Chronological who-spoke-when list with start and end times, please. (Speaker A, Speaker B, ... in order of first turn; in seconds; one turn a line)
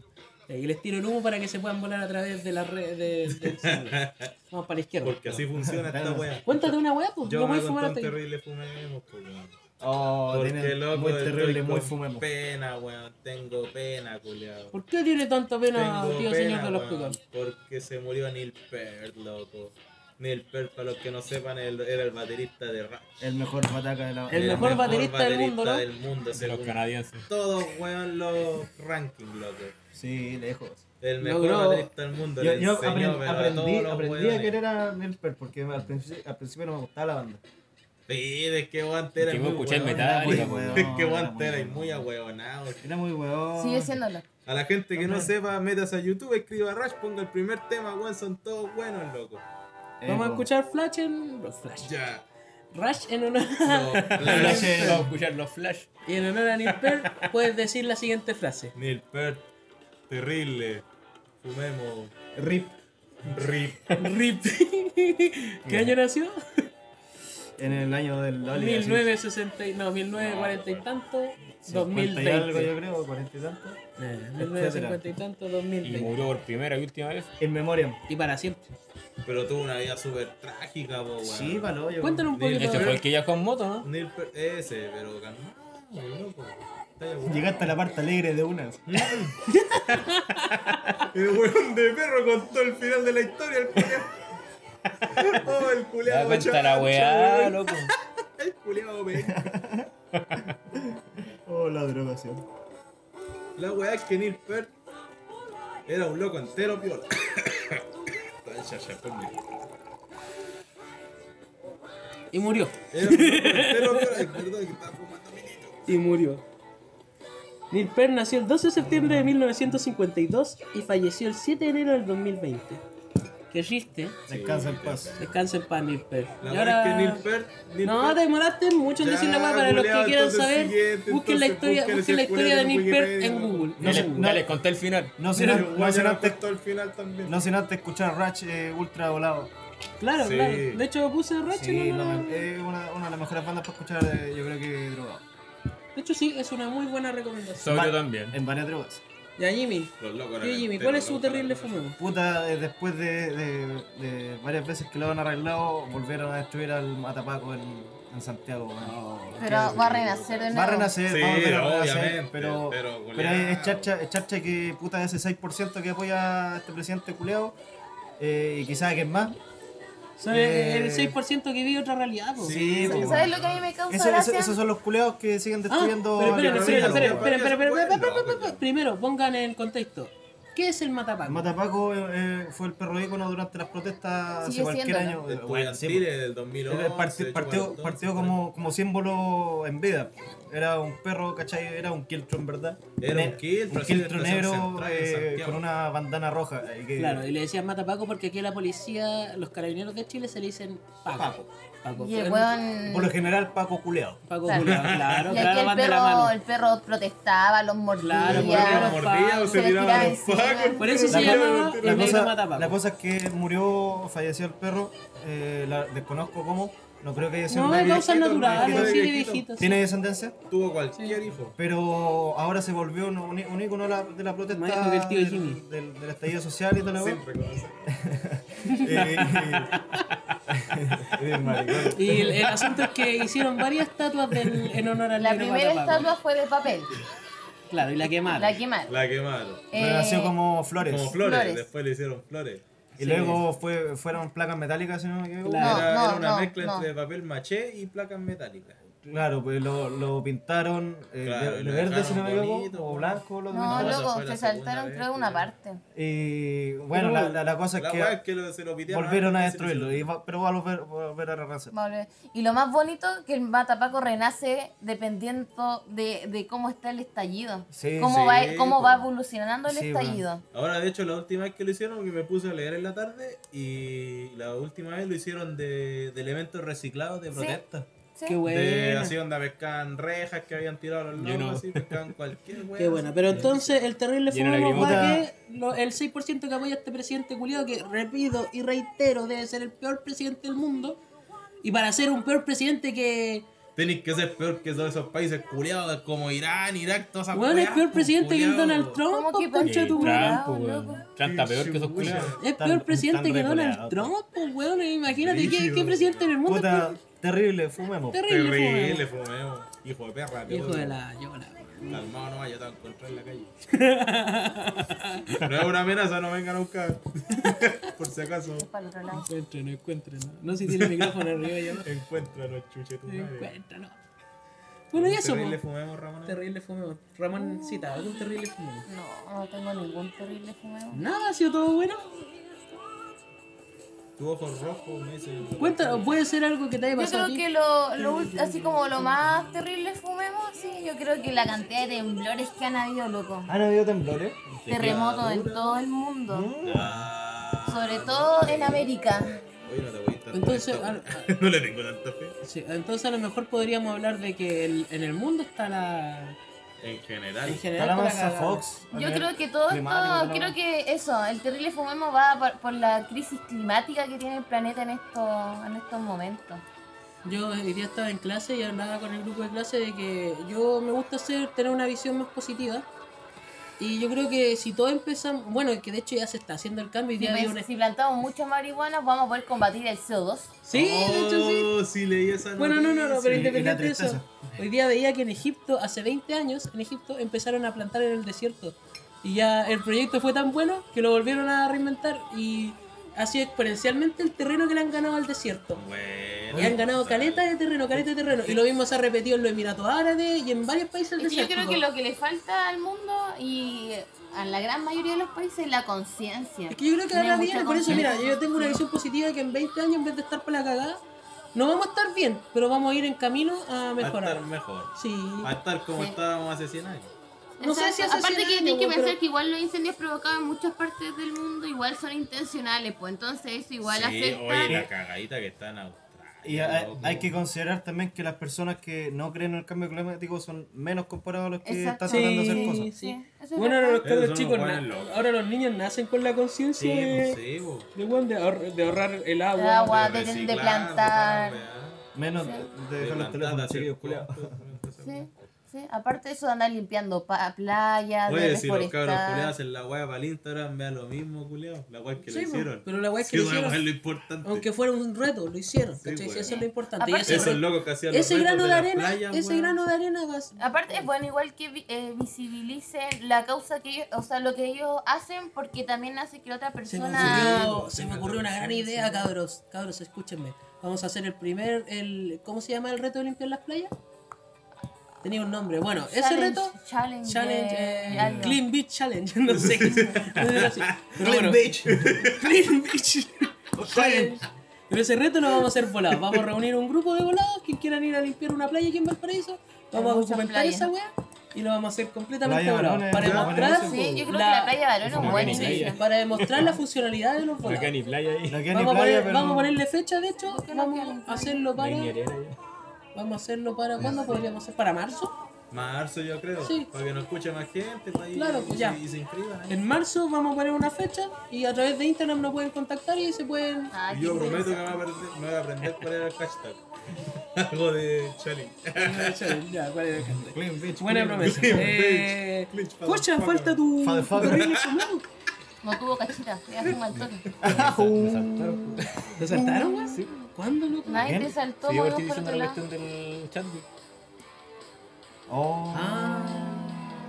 Speaker A: 0.5-5.4
Speaker B: 3.4-4.3
Speaker B: 5.0-9.6
Speaker C: 5.5-6.3
Speaker A: 6.5-8.2
Speaker C: 9.8-12.3
Speaker B: 10.3-14.8
Speaker A: 14.7-17.2
Speaker B: 15.7-23.1
Speaker C: 23.2-25.0
Speaker A: 24.3-25.8
Speaker B: 24.3-29.8
Speaker D: 26.3-27.3
Speaker C: 29.9-30.8
Speaker B: 31.0-34.6
Speaker A: 31.2-31.9
Speaker C: 32.4-37.4
Speaker B: 38.1-42.8
Speaker D: 39.2-41.0
Speaker C: 39.9-42.1
Speaker C: 42.8-44.0
Speaker E: 43.6-44.2
Speaker B: 44.5-49.4
Speaker A: 45.0-45.3
Speaker C: 50.0-50.5
Speaker A: 50.1-51.9
Speaker B: 51.8-52.2
Speaker A: 52.7-54.6
Speaker B: 53.6-55.0
Speaker C: 54.2-55.1
Speaker D: 54.3-55.9
Speaker A: 56.1-58.7
Speaker D: 56.7-57.2
Speaker B: 58.8-59.5
Speaker B: 60.1-60.9
Speaker B: 61.4-62.1
Speaker C: 62.3-62.8
Speaker B: 63.2-64.0
Speaker A: 64.0-66.7
Speaker C: 67.6-69.1
Speaker A: 68.5-72.7
Speaker B: 70.1-70.9
Speaker C: 71.7-73.8
Speaker A: 74.0-76.3
Speaker C: 74.4-75.0
Speaker D: 75.8-77.3
Speaker C: 77.4-78.0
Speaker A: 78.1-78.7
Speaker B: 79.2-81.7
Speaker C: 81.2-82.3
Speaker A: 82.0-83.0
Speaker B: 82.3-83.0
Speaker D: 82.5-83.9
Speaker B: 83.8-87.8
Speaker C: 87.2-89.3
Speaker B: 88.9-89.4
Speaker A: 89.5-91.0
Speaker B: 91.1-94.2
Speaker B: 95.1-99.5
Speaker D: 96.0-97.9
Speaker C: 99.2-99.9
Speaker D: 100.1-100.5
Speaker C: 100.7-102.5
Speaker B: 103.6-104.7
Speaker B: 105.9-107.8
Speaker B: 108.5-109.4
Speaker A: 112.3-114.4
Speaker B: 112.9-116.0
Speaker A: 115.9-116.4
Speaker A: 117.7-122.8
Speaker A: 123.5-124.2
Speaker C: 124.3-125.2
Speaker B: 124.3-125.3
Speaker A: 125.2-127.2
Speaker B: 126.4-128.2
Speaker A: 127.8-134.3
Speaker B: 129.0-133.9
Speaker C: 133.8-134.6
Speaker D: 133.8-135.2
Speaker C: 135.2-136.4
Speaker A: 135.3-135.7
Speaker B: 135.4-137.4
Speaker C: 137.3-139.5
Speaker A: 140.0-142.5
Speaker B: 140.2-140.8
Speaker C: 141.5-145.2
Speaker A: 145.9-147.7
Speaker D: 147.6-148.4
Speaker C: 147.7-149.0
Speaker A: 149.4-152.0
Speaker B: 150.0-151.9
Speaker C: 152.0-167.6
Speaker A: 158.8-159.5
Speaker E: 159.4-160.9
Speaker B: 159.5-163.9
Speaker C: 168.2-169.4
Speaker C: 170.2-171.2
Speaker A: 170.2-172.6
Speaker B: 172.4-173.7
Speaker C: 172.5-173.4
Speaker E: 172.8-174.6
Speaker C: 173.9-177.3
Speaker A: 175.7-181.5
Speaker B: 176.2-178.6
Speaker C: 181.2-186.1
Speaker E: 184.4-185.2
Speaker B: 185.3-188.4
Speaker C: 186.7-197.3
Speaker B: 193.0-195.6
Speaker A: 197.0-202.5
Speaker C: 201.1-201.5
Speaker E: 202.0-203.1
Speaker C: 202.9-204.2
Speaker A: 204.3-206.3
Speaker E: 204.5-204.7
Speaker B: 204.5-205.4
Speaker E: 205.2-211.4
Speaker A: 208.0-210.2
Speaker B: 208.2-212.3
Speaker A: 210.8-212.8
Speaker C: 211.1-220.4
Speaker A: 217.5-219.8
Speaker B: 217.6-219.5
Speaker B: 220.5-221.6
Speaker C: 221.6-227.2
Speaker A: 224.5-225.6
Speaker B: 226.8-227.9
Speaker C: 227.9-229.7
Speaker A: 228.7-230.1
Speaker C: 230.5-232.4
Speaker B: 231.2-232.0
Speaker A: 231.9-236.1
Speaker E: 235.2-236.9
Speaker A: 237.7-238.6
Speaker E: 238.2-239.0
Speaker B: 238.9-239.6
Speaker E: 239.7-240.3
Speaker C: 239.7-241.2
Speaker B: 240.8-242.6
Speaker E: 241.1-241.7
Speaker A: 243.0-243.4
Speaker C: 243.0-245.9
Speaker A: 245.4-245.8
Speaker E: 245.6-246.9
Speaker B: 245.6-248.8
Speaker C: 249.0-254.1
Speaker B: 251.2-255.5
Speaker E: 253.5-255.8
Speaker C: 255.9-258.2
Speaker A: 256.9-257.4
Speaker B: 257.8-260.1
Speaker C: 258.9-261.7
Speaker E: 261.7-270.4
Speaker C: 267.7-268.2
Speaker B: 268.0-269.1
Speaker C: 269.7-270.2
Speaker B: 270.5-277.9
Speaker E: 277.3-277.6
Speaker E: 278.2-278.4
Speaker A: 278.3-279.2
Speaker B: 278.5-283.8
Speaker D: 281.2-282.0
Speaker A: 282.8-291.0
Speaker D: 284.3-285.2
Speaker C: 284.7-285.3
Speaker A: 291.6-293.5
Speaker B: 293.8-299.0
Speaker A: 297.3-300.4
Speaker E: 299.1-301.0
Speaker D: 299.6-302.4
Speaker B: 301.2-302.4
Speaker A: 302.4-307.0
Speaker C: 302.5-304.1
Speaker B: 305.1-306.3
Speaker C: 306.4-308.3
Speaker A: 308.1-309.1
Speaker B: 308.2-311.0
Speaker A: 310.5-312.1
Speaker B: 311.9-313.5
Speaker A: 313.7-315.5
Speaker B: 315.4-318.7
Speaker A: 317.4-317.7
Speaker E: 318.6-319.3
Speaker A: 319.1-321.9
Speaker B: 320.7-321.2
Speaker B: 321.8-323.5
Speaker A: 323.1-324.0
Speaker A: 324.9-325.6
Speaker B: 324.9-326.4
Speaker A: 326.2-328.9
Speaker E: 327.4-328.1
Speaker E: 328.9-331.0
Speaker A: 330.9-332.1
Speaker B: 334.2-336.2
Speaker A: 335.6-337.4
Speaker E: 337.0-343.5
Speaker A: 338.0-339.1
Speaker C: 343.5-344.7
Speaker B: 344.7-345.8
Speaker E: 344.7-346.5
Speaker C: 346.3-347.1
Speaker B: 346.6-348.9
Speaker E: 347.7-349.4
Speaker B: 349.6-352.4
Speaker A: 350.3-351.3
Speaker A: 352.4-356.4
Speaker B: 356.8-357.6
Speaker A: 357.4-358.6
Speaker C: 357.7-360.6
Speaker E: 358.9-366.6
Speaker A: 367.2-372.9
Speaker A: 373.8-377.6
Speaker E: 377.2-380.6
Speaker A: 380.6-381.7
Speaker B: 380.7-383.6
Speaker A: 382.6-395.8
Speaker C: 383.3-384.3
Speaker B: 395.8-397.5
Speaker C: 396.5-396.8
Speaker A: 396.5-401.8
Speaker E: 401.2-408.8
Speaker A: 406.7-411.0
Speaker A: 411.5-415.5
Speaker B: 414.0-417.1
Speaker E: 417.6-424.8
Speaker A: 417.6-419.2
Speaker B: 423.8-427.4
Speaker C: 426.4-432.9
Speaker E: 431.6-434.0
Speaker A: 432.1-437.4
Speaker B: 434.0-435.2
Speaker C: 436.8-437.2
Speaker B: 437.1-437.9
Speaker A: 437.9-440.1
Speaker E: 439.6-441.6
Speaker B: 439.9-442.0
Speaker C: 442.1-444.6
Speaker E: 442.4-442.7
Speaker B: 443.0-445.4
Speaker E: 445.0-449.5
Speaker B: 448.3-454.7
Speaker A: 452.3-453.8
Speaker A: 454.4-461.0
Speaker B: 456.0-456.6
Speaker E: 456.4-457.6
Speaker B: 457.2-459.8
Speaker E: 460.6-467.7
Speaker A: 466.9-473.9
Speaker B: 467.1-469.3
Speaker A: 475.2-497.9
Speaker E: 476.1-478.6
Speaker C: 478.1-478.5
Speaker B: 479.5-481.1
Speaker C: 481.2-482.2
Speaker B: 481.9-482.4
Speaker C: 483.8-484.4
Speaker E: 489.9-490.9
Speaker C: 492.4-494.2
Speaker B: 493.2-493.6
Speaker E: 493.6-496.0
Speaker D: 495.0-496.7
Speaker C: 495.1-495.4
Speaker D: 497.6-498.7
Speaker C: 498.5-499.8
Speaker A: 498.7-502.1
Speaker E: 500.4-501.7
Speaker D: 501.8-502.6
Speaker A: 503.1-505.3
Speaker B: 505.7-509.8
Speaker A: 506.6-506.9
Speaker A: 508.3-509.0
Speaker A: 509.7-513.9
Speaker E: 513.9-515.0
Speaker B: 514.1-519.5
Speaker A: 519.0-525.2
Speaker C: 520.5-522.0
Speaker B: 521.4-523.8
Speaker C: 524.0-524.7
Speaker B: 524.4-525.1
Speaker E: 525.8-527.5
Speaker D: 527.1-529.4
Speaker C: 527.6-529.0
Speaker A: 529.4-531.4
Speaker C: 529.6-530.3
Speaker E: 529.8-530.3
Speaker E: 531.0-532.8
Speaker C: 531.2-531.5
Speaker D: 531.8-533.9
Speaker C: 535.5-537.0
Speaker A: 535.9-536.9